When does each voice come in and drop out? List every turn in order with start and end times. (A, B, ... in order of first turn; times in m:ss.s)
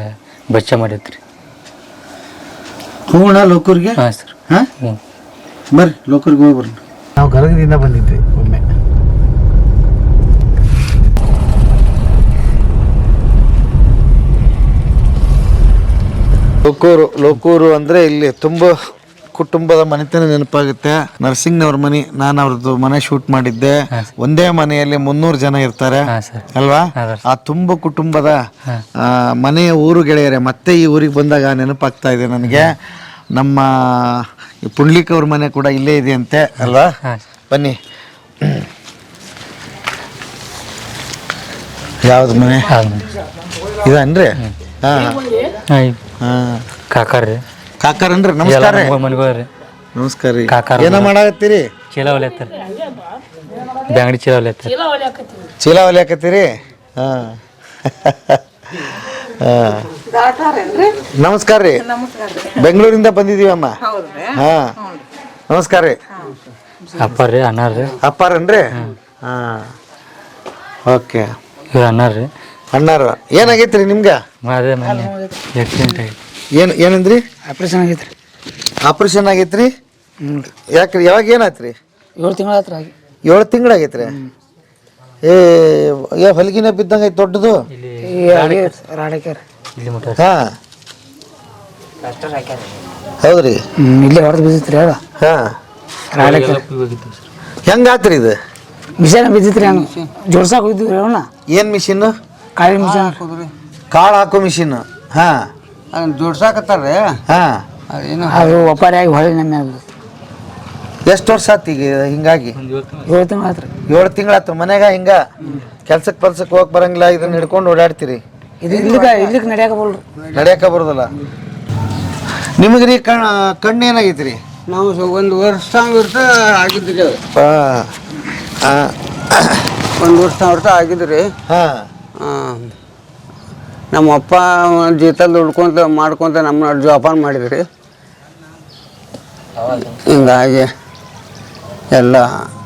0:00.5-0:01.2 A
0:03.1-0:04.0 B
0:04.0-0:05.0 A
0:05.7-0:08.6 B
0:16.6-0:18.7 B
0:19.3-0:28.4 B
0:26.1-0:27.2 A
0:29.0-0:32.7 B
0:32.4-0:32.7 A
0:33.3-0:36.9 B
0:36.6-0:37.2 A
0:37.5-0:37.8 B
0:38.4-0:38.7 B
0:42.0-0:42.7 B
0:42.7-0:43.1 A
0:43.8-0:45.2 B
0:45.7-0:46.0 A
0:46.2-0:46.6 B
0:46.9-0:47.4 A
0:47.8-0:49.0 B
0:48.4-0:49.5 A
0:49.9-0:51.6 B
0:50.5-0:51.1 A
0:51.9-0:52.6 A
0:53.9-0:54.8 A
0:55.6-1:00.0 B
1:01.0-1:01.8 B
1:02.4-1:03.7 B
1:04.2-1:04.7 B
1:05.5-1:06.0 B
1:06.9-1:08.0 A
1:08.0-1:09.7 B
1:10.9-1:11.3 B
1:11.7-1:12.3 A
1:12.7-1:14.2 B
1:14.4-1:16.2 A
1:14.8-1:15.3 C
1:16.5-1:17.2 B
1:17.5-1:18.1 C
1:18.8-1:19.7 B
1:20.7-1:21.7 B
1:22.2-1:22.9 C
1:23.2-1:24.2 B
1:25.2-1:27.6 B
1:27.7-1:28.8 A
1:28.1-1:29.4 C
1:29.8-1:30.2 A
1:30.2-1:30.5 B
1:32.0-1:32.6 C
1:33.2-1:33.6 B
1:33.8-1:35.0 C
1:35.2-1:35.4 B
1:36.1-1:37.3 A
1:36.2-1:36.6 C
1:37.7-1:38.3 B
1:39.0-1:41.3 C
1:39.6-1:40.1 D
1:41.5-1:42.1 B
1:42.6-1:43.2 C
1:42.8-1:43.5 D
1:43.9-1:45.5 B
1:45.9-1:47.1 D
1:47.3-1:47.6 B
1:47.9-1:48.5 D
1:48.3-1:49.8 C
1:51.1-1:52.6 B
1:52.5-1:53.2 A
1:53.1-1:53.7 C
1:53.9-1:55.2 B
1:55.8-1:58.2 B
1:58.6-2:00.0 C
1:58.7-1:59.3 D
2:00.3-2:01.1 B
2:02.6-2:04.4 B
2:04.7-2:07.2 D
2:07.4-2:07.9 B
2:08.6-2:09.7 B
2:10.0-2:11.3 D
2:11.5-2:11.9 B
2:12.2-2:12.7 D
2:13.9-2:17.6 D
2:19.6-2:20.3 A
2:20.1-2:20.7 D
2:21.9-2:22.4 D